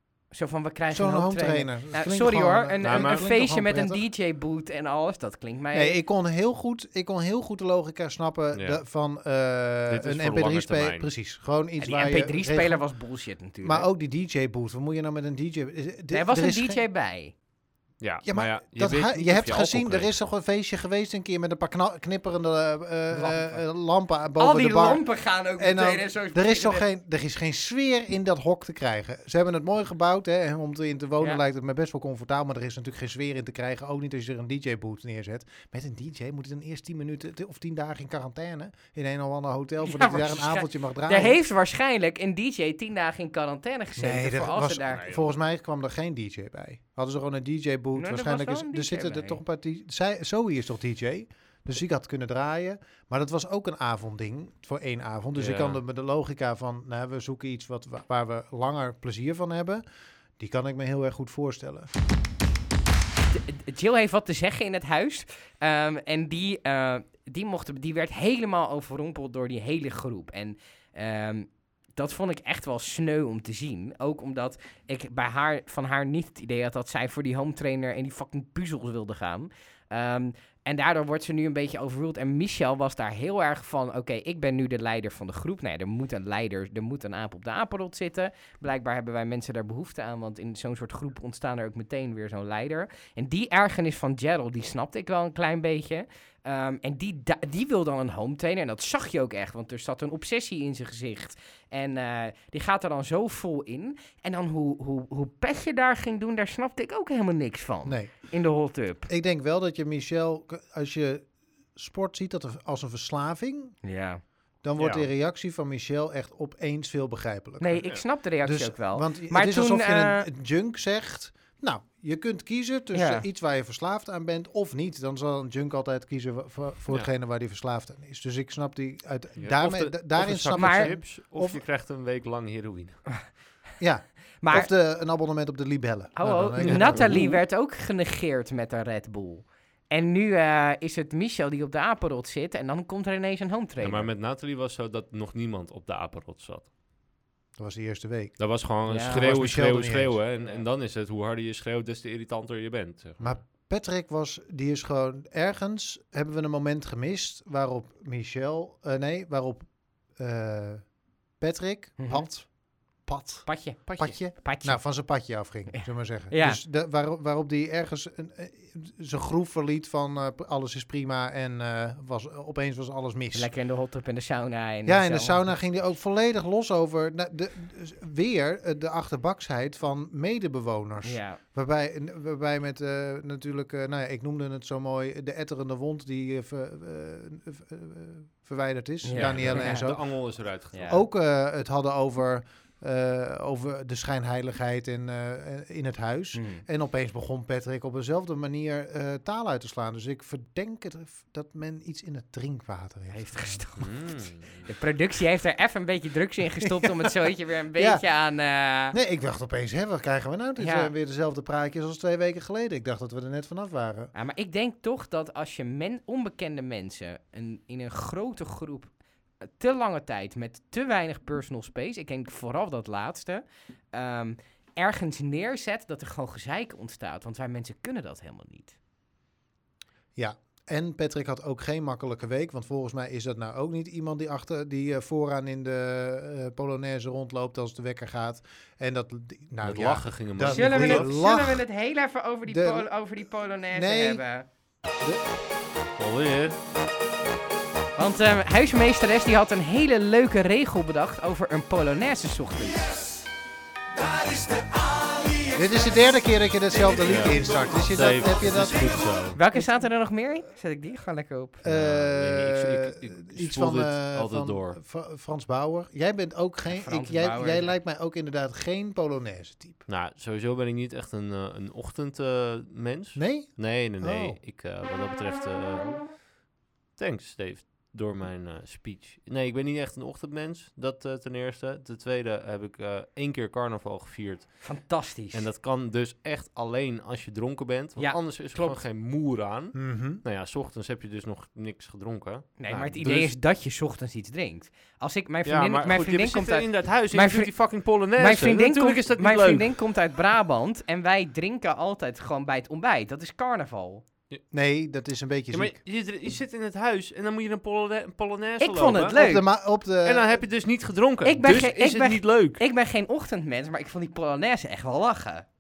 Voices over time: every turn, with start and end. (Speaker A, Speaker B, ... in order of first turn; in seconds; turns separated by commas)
Speaker A: 0.3-6.0, Speaker B: 0.9-4.0, Speaker C: 2.8-3.3, Speaker B: 5.7-12.8, Speaker C: 8.5-8.8, Speaker C: 9.9-11.1, Speaker A: 11.8-13.9, Speaker B: 13.6-16.8, Speaker A: 16.1-17.3, Speaker C: 18.0-20.1, Speaker B: 18.2-25.0, Speaker A: 23.1-23.6, Speaker A: 24.4-26.9, Speaker B: 25.6-41.4, Speaker A: 39.8-45.1, Speaker B: 44.0-59.8, Speaker C: 44.9-45.3, Speaker A: 48.0-49.4, Speaker C: 55.4-55.8, Speaker B: 60.4-61.9, Speaker A: 63.3-109.1, Speaker B: 107.9-108.1, Speaker B: 109.1-113.8, Speaker A: 113.8-114.2, Speaker B: 114.6-117.9, Speaker C: 114.8-115.1, Speaker A: 117.6-120.3, Speaker B: 118.4-131.6, Speaker A: 122.9-123.3, Speaker C: 129.4-133.3, Speaker A: 130.6-130.9, Speaker B: 133.8-137.4, Speaker A: 134.4-134.7, Speaker A: 136.2-144.1, Speaker C: 136.6-137.2, Speaker C: 143.8-146.7, Speaker B: 147.6-148.4, Speaker C: 148.4-153.4, Speaker A: 148.9-149.3, Speaker B: 149.0-150.2, Speaker B: 153.2-173.5, Speaker A: 162.0-162.3, Speaker A: 163.5-164.8, Speaker A: 165.7-166.6, Speaker A: 173.3-175.5, Speaker B: 174.9-190.0, Speaker A: 181.0-181.4, Speaker A: 189.0-189.9, Speaker C: 189.2-191.0, Speaker A: 190.7-191.0, Speaker B: 190.9-203.6, Speaker A: 196.3-196.7, Speaker A: 203.1-209.0, Speaker C: 203.8-204.7, Speaker B: 206.6-207.2, Speaker B: 207.8-208.0, Speaker B: 208.9-214.1, Speaker A: 210.6-210.9, Speaker A: 214.2-218.9, Speaker A: 219.4-228.8, Speaker B: 230.2-241.6, Speaker C: 239.6-241.1, Speaker A: 240.5-244.5, Speaker B: 242.5-242.9, Speaker B: 243.7-244.2, Speaker C: 246.0-246.6, Speaker A: 248.0-252.9, Speaker B: 255.6-259.8, Speaker C: 257.1-259.4, Speaker A: 259.4-261.6, Speaker B: 261.6-269.8, Speaker C: 261.6-264.8, Speaker A: 266.7-267.8, Speaker C: 269.9-276.1, Speaker B: 273.2-274.4, Speaker C: 277.0-284.7, Speaker A: 284.6-285.5, Speaker C: 285.3-293.4, Speaker A: 288.0-288.8, Speaker B: 289.8-290.2, Speaker A: 292.6-297.5, Speaker C: 295.4-299.8, Speaker A: 298.2-304.0, Speaker B: 304.5-305.8, Speaker C: 305.5-309.2, Speaker A: 308.6-309.4, Speaker B: 309.1-310.5, Speaker C: 310.0-312.6, Speaker A: 311.2-315.5